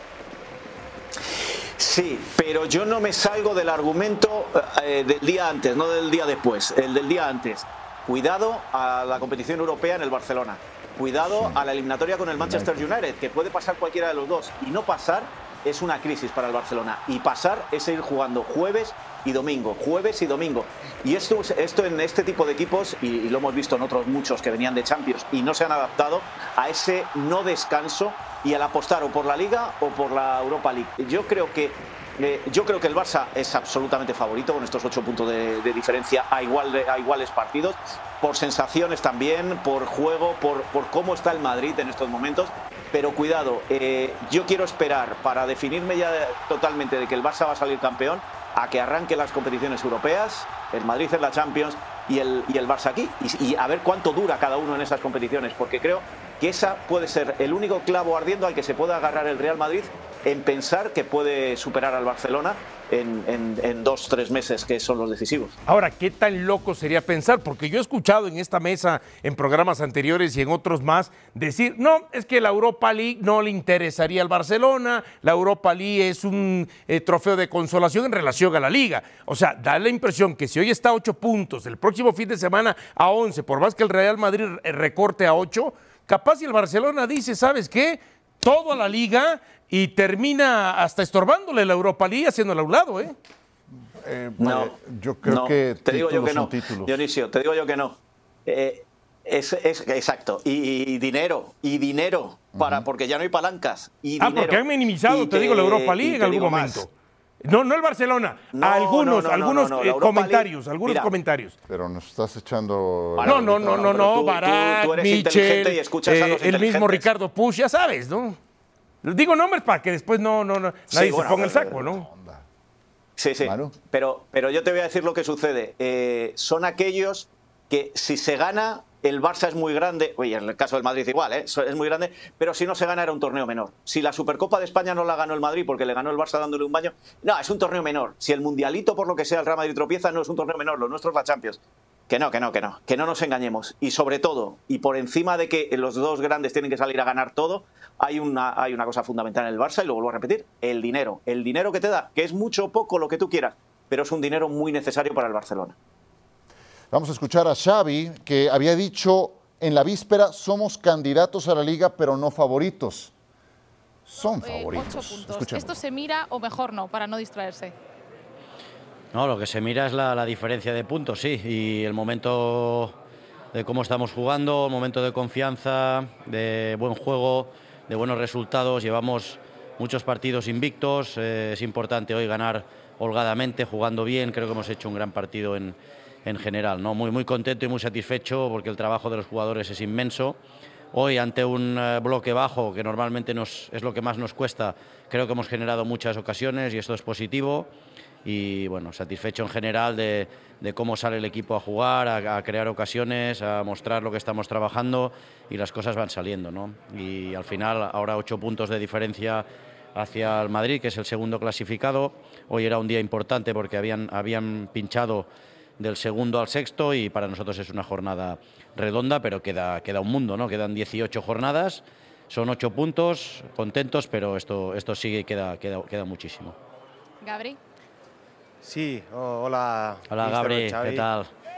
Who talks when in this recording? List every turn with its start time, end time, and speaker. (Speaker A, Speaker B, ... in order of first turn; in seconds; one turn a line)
Speaker A: 1.8-65.5
Speaker B: 11.3-11.6
Speaker B: 12.4-12.9
Speaker C: 65.7-93.2
Speaker B: 94.0-97.0
Speaker A: 94.4-106.8
Speaker B: 102.5-102.8
Speaker C: 104.2-106.9
Speaker C: 107.4-111.6
Speaker A: 108.5-111.1
Speaker B: 111.7-114.1
Speaker A: 113.2-117.1
Speaker C: 113.2-118.4
Speaker C: 119.0-122.1
Speaker A: 120.9-121.8
Speaker B: 121.8-122.4
Speaker A: 123.2-155.8
Speaker B: 123.4-123.7
Speaker B: 156.9-163.1
Speaker B: 164.1-165.8
Speaker D: 164.4-167.7
Speaker E: 169.1-172.9
Speaker E: 173.5-190.4
Speaker E: 190.9-197.7
Speaker E: 198.2-226.6
Speaker D: 227.2-227.6
Speaker F: 228.6-231.1
Speaker E: 230.1-231.3